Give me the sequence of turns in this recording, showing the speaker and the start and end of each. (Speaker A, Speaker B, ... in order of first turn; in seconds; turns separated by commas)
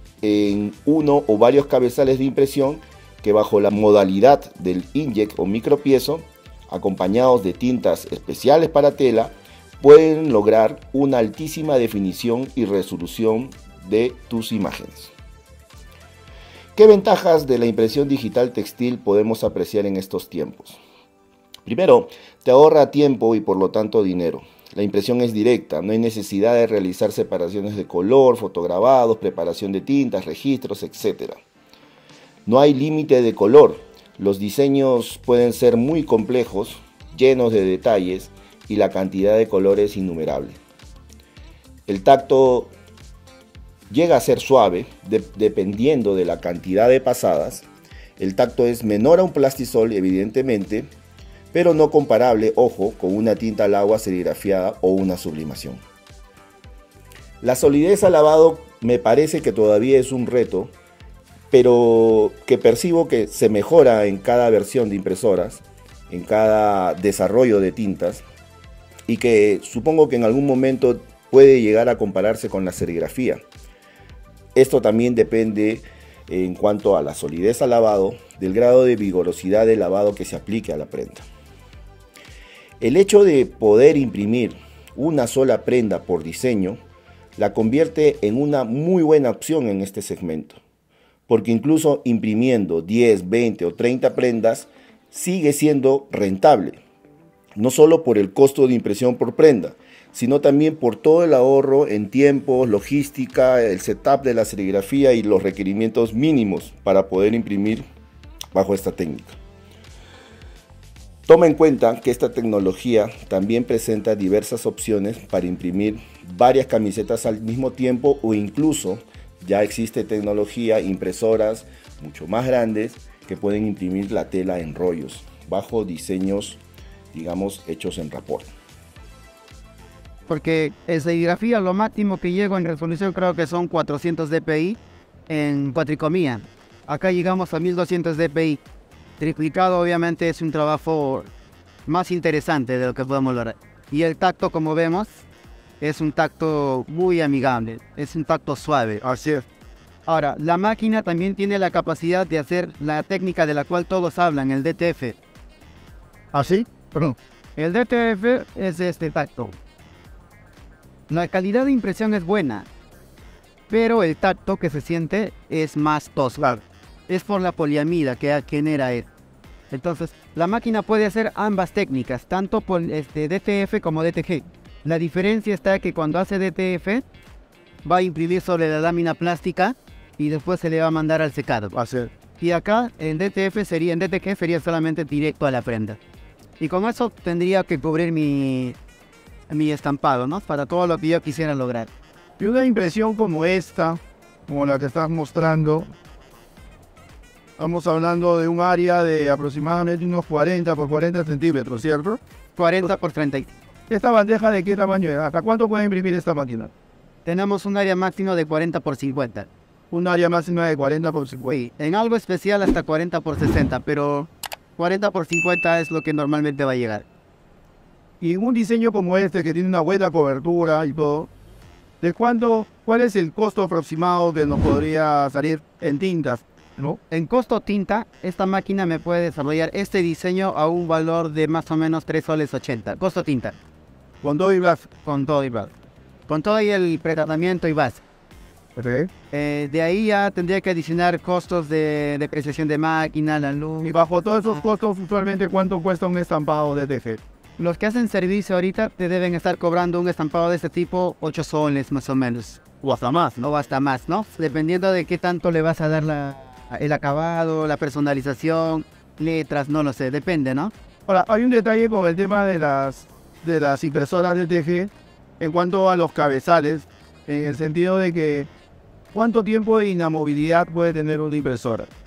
Speaker A: 0.2-15.1, Speaker A: 16.8-20.8, Speaker A: 21.7-31.4, Speaker A: 32.5-40.6, Speaker A: 41.9-42.7, Speaker A: 43.9-47.7, Speaker A: 48.2-50.9, Speaker A: 51.5-55.8, Speaker A: 57.4-60.7, Speaker A: 61.5-68.2, Speaker A: 69.1-73.4, Speaker A: 74.5-81.2, Speaker A: 82.8-86.8, Speaker A: 87.4-90.6, Speaker A: 91.3-96.8, Speaker A: 97.6-107.8, Speaker A: 108.5-109.4, Speaker A: 111.3-126.6, Speaker A: 127.1-128.5, Speaker B: 130.3-138.6, Speaker B: 139.2-141.3, Speaker B: 141.9-145.2, Speaker B: 145.8-149.0, Speaker C: 149.0-149.5, Speaker B: 150.1-155.2, Speaker C: 156.3-157.2, Speaker B: 157.6-159.6, Speaker B: 161.1-162.7, Speaker B: 163.7-166.4, Speaker C: 166.4-166.6, Speaker B: 167.1-169.1, Speaker B: 169.7-177.1, Speaker B: 177.8-181.8, Speaker C: 181.7-182.1, Speaker B: 182.4-186.0, Speaker B: 186.6-188.8, Speaker B: 189.5-191.9, Speaker C: 192.4-195.9, Speaker C: 197.6-202.2, Speaker B: 202.6-203.6, Speaker C: 203.9-206.7, Speaker B: 207.2-209.5, Speaker C: 209.9-211.5, Speaker B: 211.5-217.1, Speaker C: 218.2-221.3, Speaker C: 222.0-227.0, Speaker B: 227.1-233.6, Speaker C: 234.2-234.9, Speaker B: 235.0-235.7, Speaker B: 236.3-238.0, Speaker C: 238.8-239.1, Speaker B: 239.3-243.9, Speaker C: 243.8-247.2, Speaker B: 247.6-252.6, Speaker C: 252.8-253.4, Speaker B: 253.4-260.7, Speaker C: 261.1-268.5, Speaker C: 269.1-271.9